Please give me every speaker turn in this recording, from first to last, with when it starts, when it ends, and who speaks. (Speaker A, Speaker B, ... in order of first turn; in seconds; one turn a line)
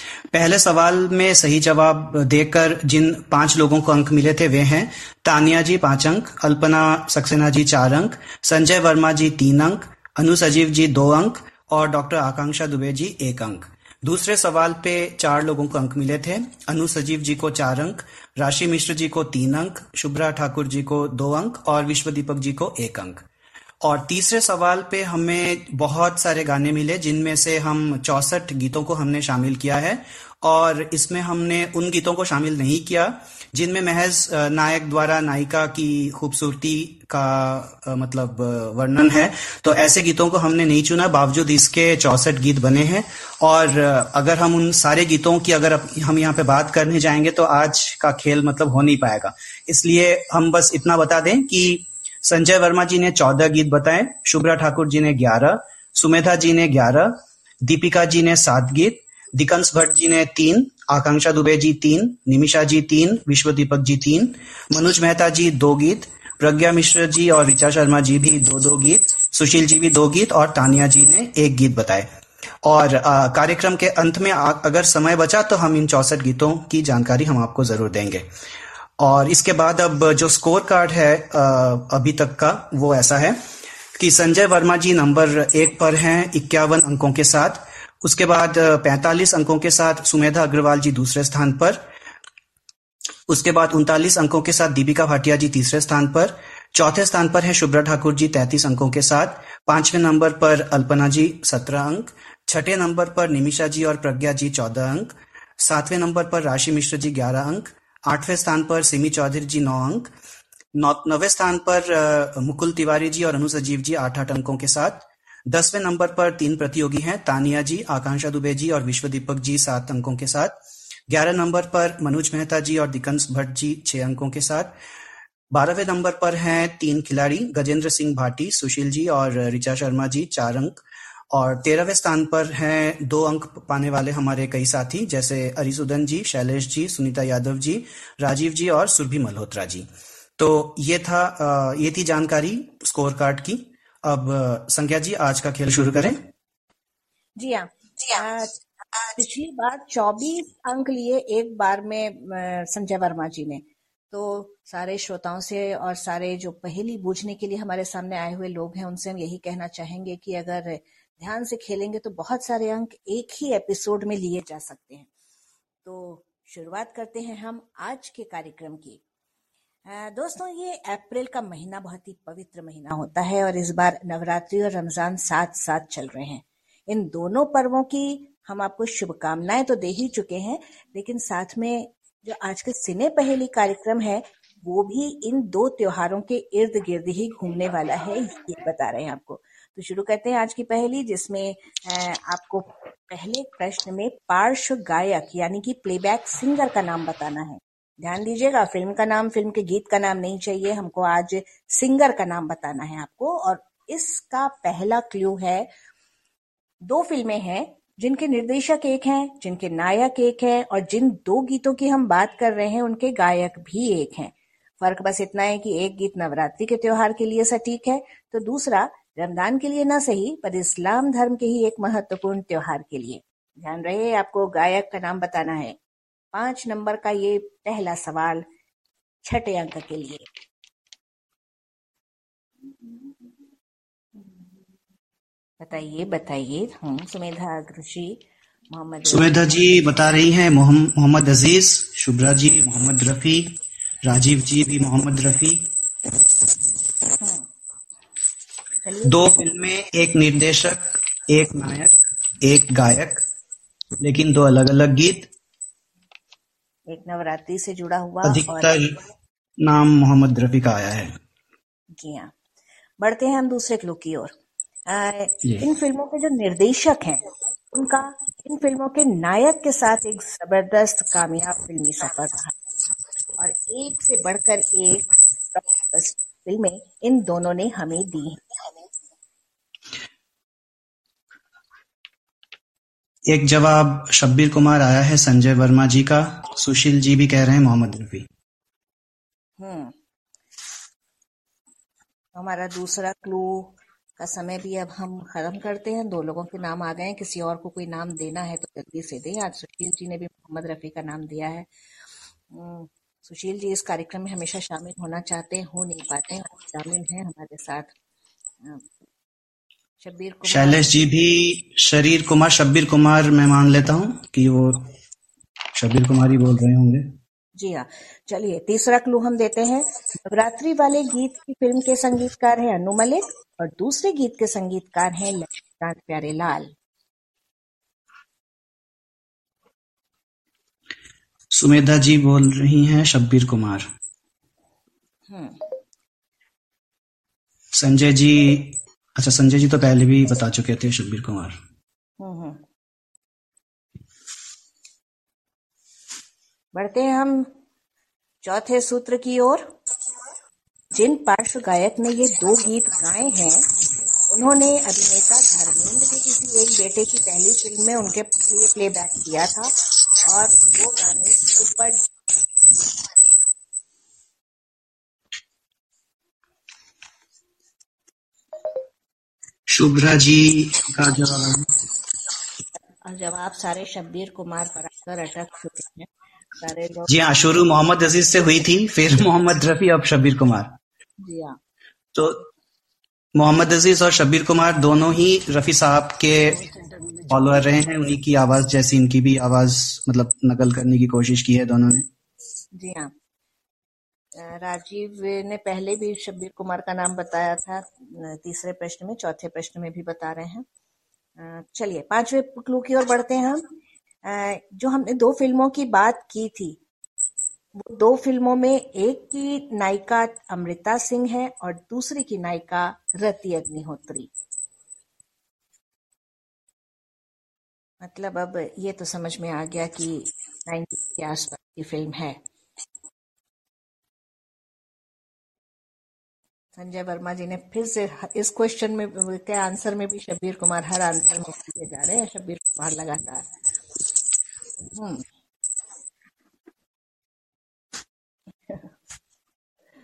Speaker A: 0.3-23.2
Speaker A: 23.8-72.1
Speaker A: 72.6-78.2
Speaker A: 79.0-83.4
Speaker A: 83.9-91.8
Speaker A: 93.3-110.1
Speaker A: 110.8-120.5
Speaker A: 121.1-124.7
Speaker A: 125.5-130.8
Speaker A: 131.3-139.9
Speaker A: 140.4-146.2
Speaker B: 147.4-165.1
Speaker B: 165.8-169.0
Speaker B: 169.8-205.7
Speaker B: 206.8-225.8
Speaker B: 226.3-228.4
Speaker B: 229.2-230.3
Speaker B: 235.6-239.7
Speaker A: 239.1-245.6
Speaker B: 247.2-247.5
Speaker B: 248.8-249.2
Speaker A: 249.0-253.2
Speaker A: 254.0-255.3
Speaker B: 256.9-258.8
Speaker A: 258.2-258.9
Speaker A: 259.6-261.1
Speaker B: 262.0-262.3
Speaker B: 263.0-264.3
Speaker B: 264.9-272.5
Speaker B: 273.4-278.4
Speaker A: 283.3-288.3
Speaker B: 289.6-289.9
Speaker B: 292.3-301.7
Speaker B: 302.5-307.9
Speaker B: 310.0-311.3
Speaker A: 310.4-314.9
Speaker A: 315.7-317.1
Speaker B: 317.6-326.7
Speaker A: 331.5-333.9
Speaker B: 335.3-335.6
Speaker A: 337.7-341.6
Speaker B: 342.2-342.6
Speaker B: 346.7-347.5
Speaker B: 348.4-349.7
Speaker B: 350.9-353.7
Speaker B: 354.3-359.7
Speaker B: 360.3-362.0
Speaker A: 369.7-371.7
Speaker B: 373.0-377.1
Speaker A: 377.1-380.7
Speaker B: 381.2-381.6
Speaker A: 382.1-382.4
Speaker A: 383.3-386.6
Speaker A: 387.3-392.1
Speaker B: 392.8-393.1
Speaker B: 394.4-400.6
Speaker B: 401.4-403.7
Speaker B: 404.2-406.8
Speaker B: 407.8-414.3
Speaker B: 418.0-422.4
Speaker B: 426.8-433.5
Speaker B: 434.9-435.2